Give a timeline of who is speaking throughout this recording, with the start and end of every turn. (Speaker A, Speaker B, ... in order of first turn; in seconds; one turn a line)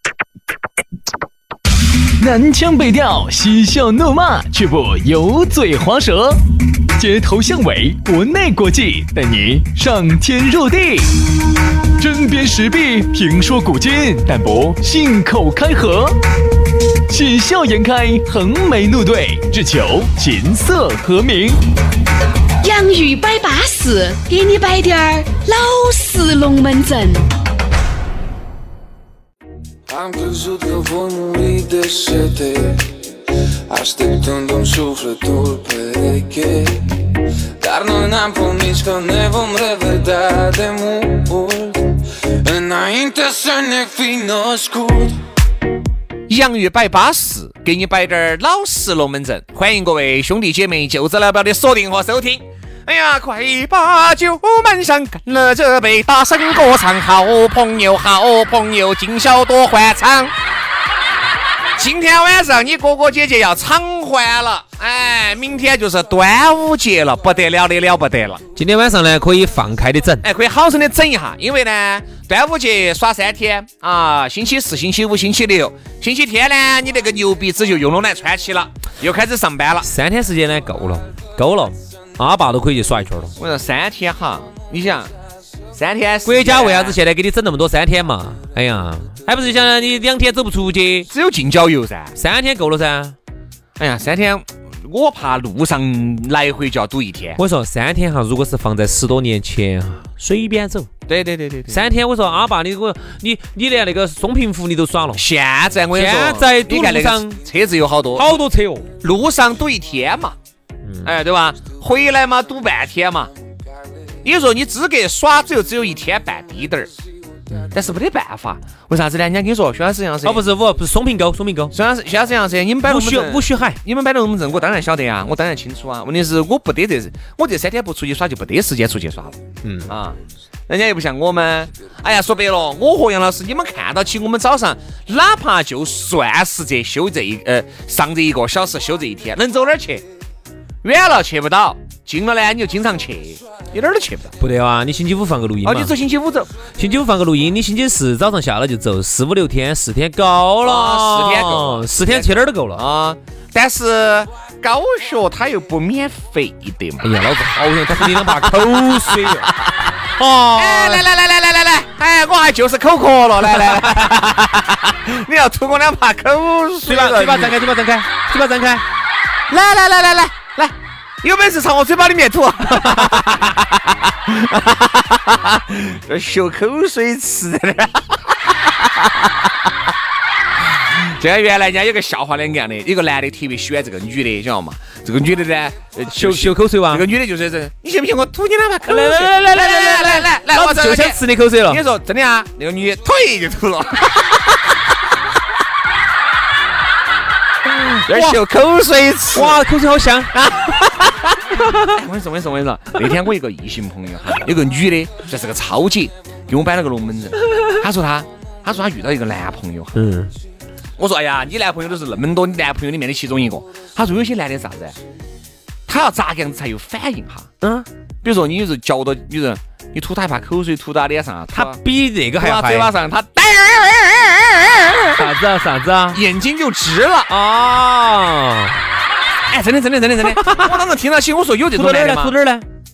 Speaker A: 2.2-6.4
Speaker A: 7.0-11.1
Speaker A: 12.0-16.2
Speaker A: 17.1-21.6
Speaker B: 22.6-27.3
Speaker C: 29.9-33.1
Speaker C: 33.7-45.2
Speaker D: 46.3-60.3
Speaker D: 61.8-68.4
Speaker E: 68.6-70.3
Speaker D: 70.2-79.9
Speaker E: 79.8-83.4
Speaker D: 83.4-85.1
Speaker D: 85.7-87.0
Speaker E: 86.2-91.1
Speaker D: 91.1-92.2
Speaker E: 92.2-93.2
Speaker D: 93.8-97.4
Speaker E: 97.4-100.9
Speaker D: 101.1-101.9
Speaker E: 101.7-105.2
Speaker D: 105.2-108.3
Speaker E: 105.9-107.4
Speaker E: 108.2-108.9
Speaker D: 109.0-110.3
Speaker D: 111.0-113.3
Speaker D: 114.2-116.9
Speaker D: 117.7-120.4
Speaker E: 120.2-121.8
Speaker D: 121.7-129.4
Speaker E: 122.8-123.8
Speaker E: 129.6-129.9
Speaker D: 129.9-130.2
Speaker D: 130.7-140.1
Speaker D: 140.8-144.3
Speaker E: 144.4-145.9
Speaker D: 145.6-146.5
Speaker E: 146.7-152.8
Speaker D: 150.6-157.1
Speaker E: 157.0-159.5
Speaker D: 158.0-159.9
Speaker E: 160.2-161.1
Speaker D: 160.6-167.6
Speaker E: 166.8-168.8
Speaker D: 169.5-179.5
Speaker D: 180.9-194.6
Speaker E: 186.1-187.1
Speaker E: 188.9-191.8
Speaker D: 197.7-199.6
Speaker E: 198.1-198.4
Speaker E: 199.3-200.4
Speaker D: 200.3-210.0
Speaker E: 201.5-202.0
Speaker E: 209.9-210.3
Speaker D: 211.0-215.0
Speaker D: 215.9-217.5
Speaker E: 217.6-217.9
Speaker D: 218.2-221.8
Speaker E: 221.5-222.9
Speaker D: 222.4-225.3
Speaker E: 225.2-226.2
Speaker D: 226.1-227.3
Speaker E: 227.3-228.8
Speaker D: 229.5-232.3
Speaker E: 230.2-230.8
Speaker E: 231.7-232.7